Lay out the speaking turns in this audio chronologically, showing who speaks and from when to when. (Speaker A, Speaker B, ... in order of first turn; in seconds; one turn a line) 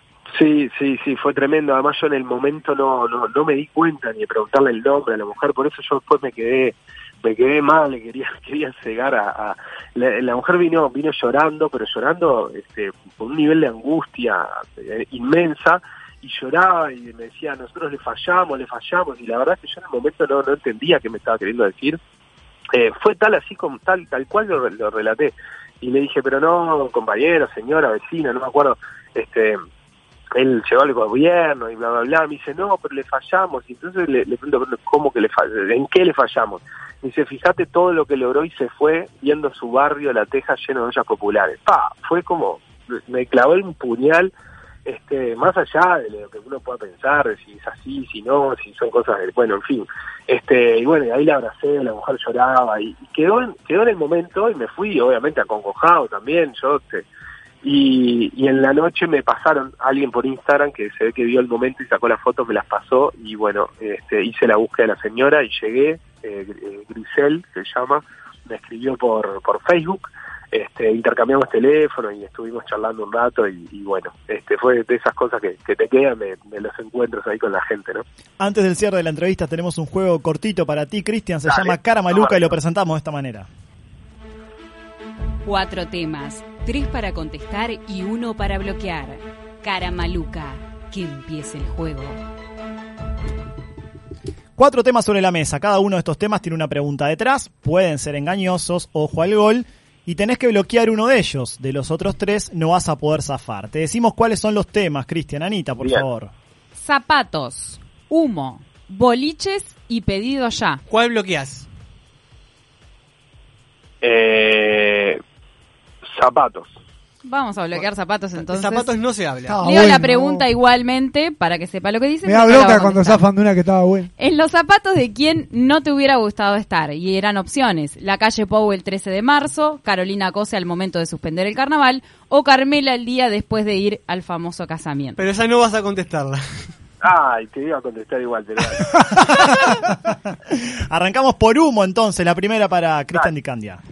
Speaker A: 0.3-22.0
Speaker A: 22.7-29.6
Speaker A: 30.4-44.3
Speaker A: 44.9-57.0
Speaker A: 57.6-78.0
Speaker B: 78.4-83.5
Speaker A: 81.5-82.5
Speaker C: 85.5-92.2
Speaker B: 94.6-106.3
Speaker D: 106.8-110.8
Speaker E: 110.9-111.7
Speaker A: 114.0-115.2
Speaker A: 116.1-116.8
Speaker D: 117.2-118.9
Speaker E: 118.4-119.6
Speaker F: 119.5-120.5
Speaker D: 119.6-123.2
Speaker F: 122.2-124.1
Speaker D: 124.2-135.2
Speaker E: 135.2-136.4
Speaker A: 137.0-139.0
Speaker B: 140.5-143.8